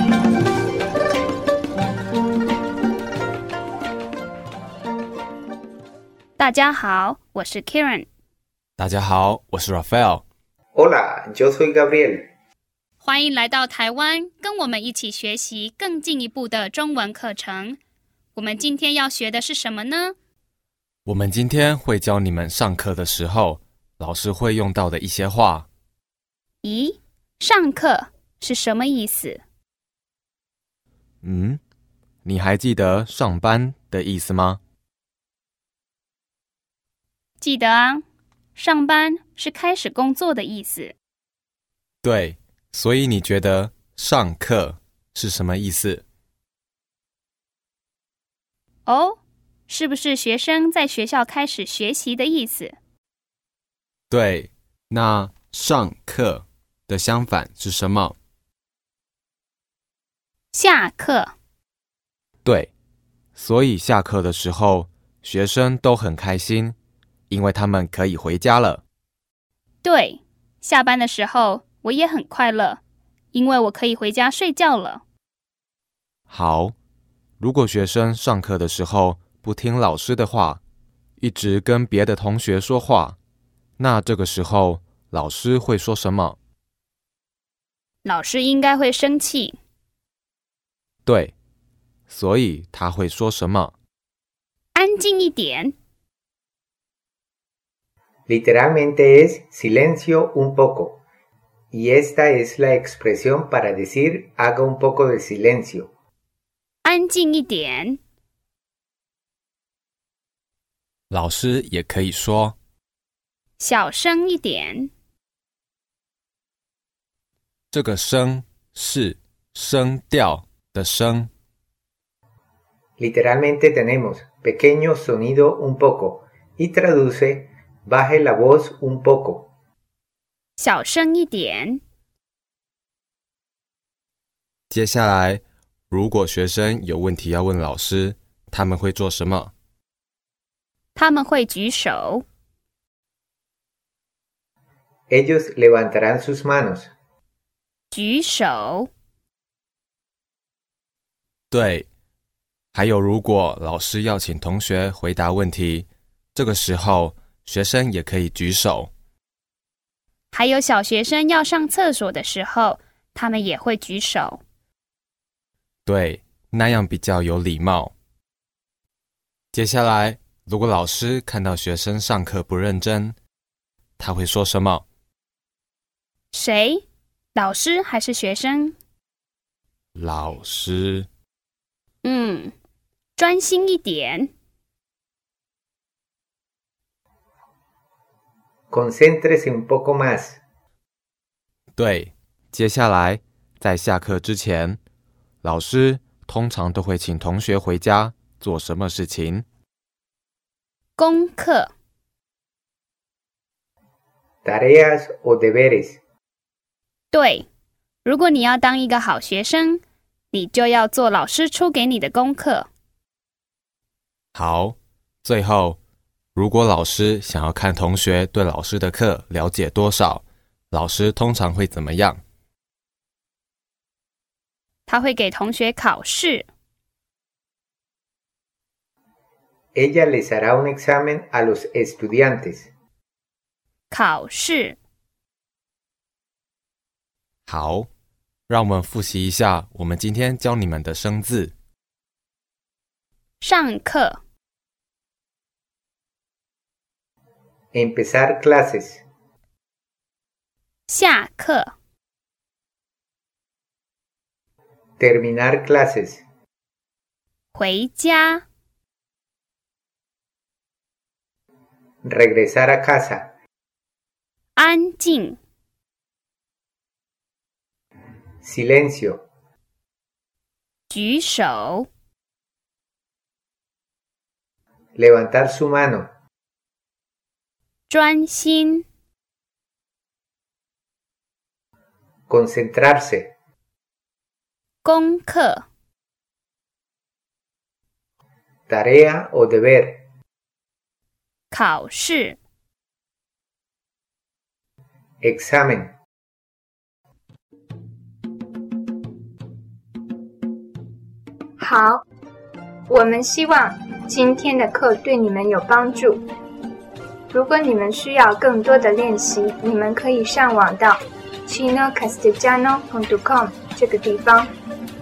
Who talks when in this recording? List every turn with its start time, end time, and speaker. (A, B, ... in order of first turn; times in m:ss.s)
0:06.4-0:08.1 A
0:08.8-0:10.2 B
0:10.8-0:12.3 C
0:13.0-0:17.8 A
0:18.3-0:20.2 A
0:21.0-0:25.7 B
0:26.6-0:29.4 A
0:31.2-0:31.6 B
0:32.2-0:34.6 B
0:37.4-0:38.0 A
0:38.6-0:40.9 A
0:42.0-0:46.0 B
0:48.9-0:52.8 A
0:54.1-0:58.2 B
1:00.5-1:01.3 A
1:02.4-1:02.7 B
1:03.3-1:06.8 B
1:07.3-1:08.8 B
1:09.8-1:12.8 A
1:13.3-1:15.0 A
1:16.3-1:16.8 B
1:17.4-1:20.6 B
1:21.2-1:23.2 B
1:23.8-1:26.4 B
1:28.0-1:29.6 A
1:31.1-1:31.3 B
1:32.1-1:33.7 B
1:34.8-1:35.7 A
1:38.3-1:41.0 C
1:41.7-1:45.9 C
1:46.8-1:48.0 A
1:51.1-1:52.6 B
1:53.6-1:54.9 A
1:57.7-2:01.3 B
2:03.0-2:09.5 C
2:10.6-2:11.8 A
2:14.7-2:19.5 B
2:21.0-2:22.2 A
2:25.1-2:26.9 C
2:27.9-2:28.9 A
2:31.5-2:31.9 B
2:32.7-2:38.9 B
2:40.3-2:44.4 A
2:45.8-2:47.9 B
2:49.5-2:53.2 B
2:54.0-2:54.8 B
2:56.3-2:56.8 A
2:57.3-2:58.8 A
2:59.9-3:01.1 B
3:02.0-3:02.5 A
3:03.2-3:04.3 A
3:08.7-3:10.4 C
3:11.8-3:14.8 B
3:15.4-3:19.4 B
3:21.0-3:21.7 A
3:24.4-3:26.0 C
3:27.1-3:27.5 A
3:28.0-3:32.7 A
3:34.3-3:35.8 B
3:36.3-3:42.2 B
3:44.9-3:46.5 A
3:49.7-3:52.7 C
3:53.9-3:54.8 A
3:57.5-3:57.9 B
3:58.5-4:01.5 B
4:03.4-4:04.2 A
4:07.7-4:09.0 C
4:10.9-4:11.7 A
4:15.0-4:16.2 C
4:17.5-4:18.4 A
4:22.0-4:23.3 C
4:24.6-4:25.4 A
4:28.4-4:29.2 C
4:30.9-4:31.9 A
4:35.0-4:36.1 C
4:37.9-4:38.8 A
4:42.3-4:43.3 C
4:44.8-4:45.6 A
4:48.7-4:50.0 C
4:51.5-4:52.4 A
4:55.2-4:55.9 C
5:01.6-5:02.0 D
5:02.9-5:06.2 D
5:07.3-5:14.5 D